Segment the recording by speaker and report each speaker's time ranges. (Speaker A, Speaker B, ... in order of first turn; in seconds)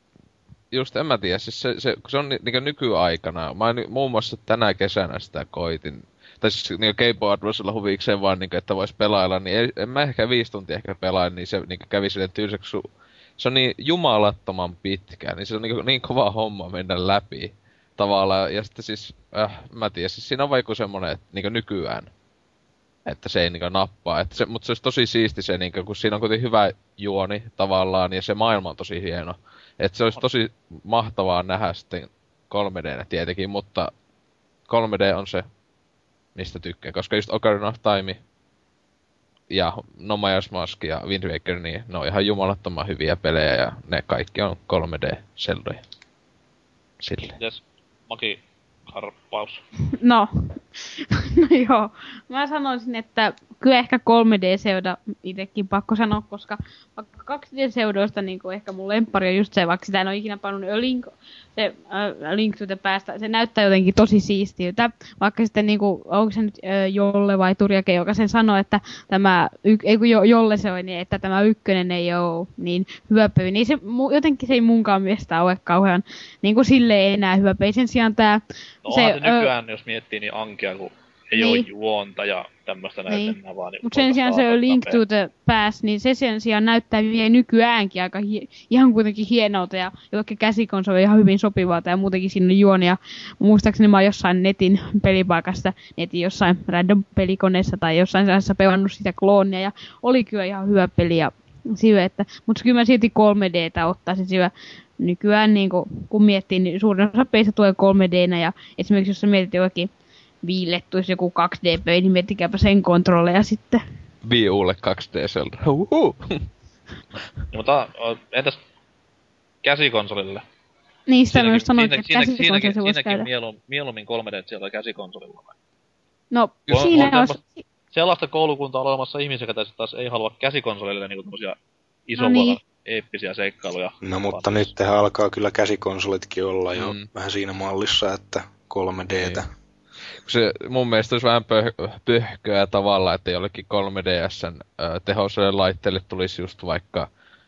Speaker A: 0.7-12.8, 13.4-22.1, 23.1-33.9, 34.7-35.5, 36.3-38.2, 39.5-45.8, 47.0-47.4, 114.2-116.5, 136.7-137.1, 139.2-139.4, 140.2-147.1
Speaker B: 47.4-49.6, 78.8-85.0, 117.5-118.6, 119.6-120.4, 121.3-125.5, 126.7-127.4, 127.9-134.7
Speaker C: 50.0-79.5, 81.3-81.7, 83.1-109.9, 110.4-113.8, 121.1-123.3, 126.3-127.6, 132.2-132.6
Speaker D: 134.0-139.5